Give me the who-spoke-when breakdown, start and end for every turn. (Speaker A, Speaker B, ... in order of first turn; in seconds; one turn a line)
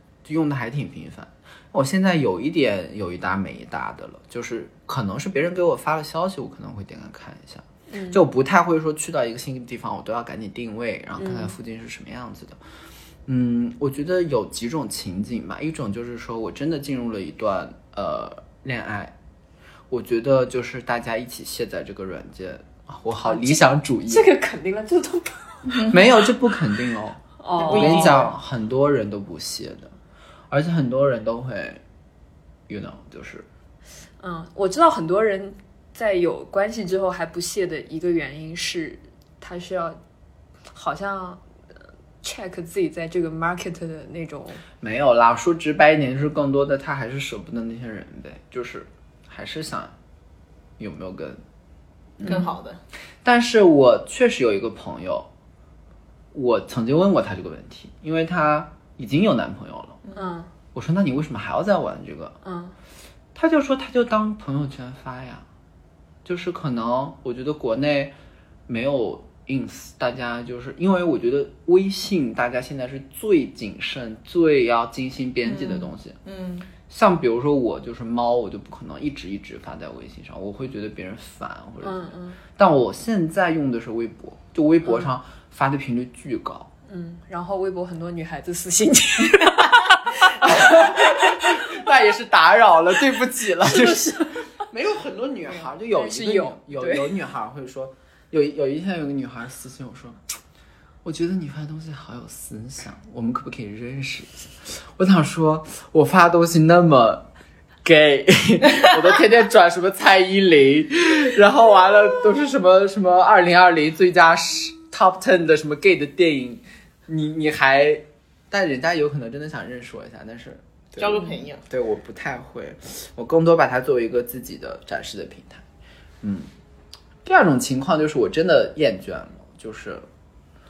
Speaker A: 0.2-12.6
Speaker B: 7.9-8.2
Speaker B: 11.2-11.5
Speaker A: 13.3-19.1
Speaker A: 19.9-24.3
Speaker B: 23.2-25.5
Speaker C: 25.7-26.1
Speaker A: 25.8-29.9
Speaker B: 27.4-28.3
Speaker C: 27.6-28.3
Speaker A: 30.5-31.8
Speaker A: 32.7-33.5
Speaker B: 34.2-40.0
Speaker B: 40.7-41.4
Speaker B: 42.2-44.6
Speaker A: 44.8-49.9
Speaker A: 50.8-51.4
Speaker A: 52.2-52.5
Speaker C: 52.2-52.8
Speaker A: 53.2-55.3
Speaker A: 56.3-60.0
Speaker C: 60.0-60.3
Speaker B: 60.1-60.5
Speaker A: 60.7-62.4
Speaker B: 62.4-62.8
Speaker A: 63.4-65.5
Speaker A: 66.2-68.2
Speaker A: 68.7-76.2
Speaker C: 75.5-76.7
Speaker A: 76.9-86.7
Speaker B: 81.8-82.4
Speaker B: 86.9-91.6
Speaker A: 90.4-100.2
Speaker B: 93.6-94.5
Speaker B: 95.5-97.1
Speaker A: 101.0-107.3
Speaker A: 107.8-125.6
Speaker C: 121.0-121.6
Speaker A: 126.2-126.5
Speaker A: 127.2-130.1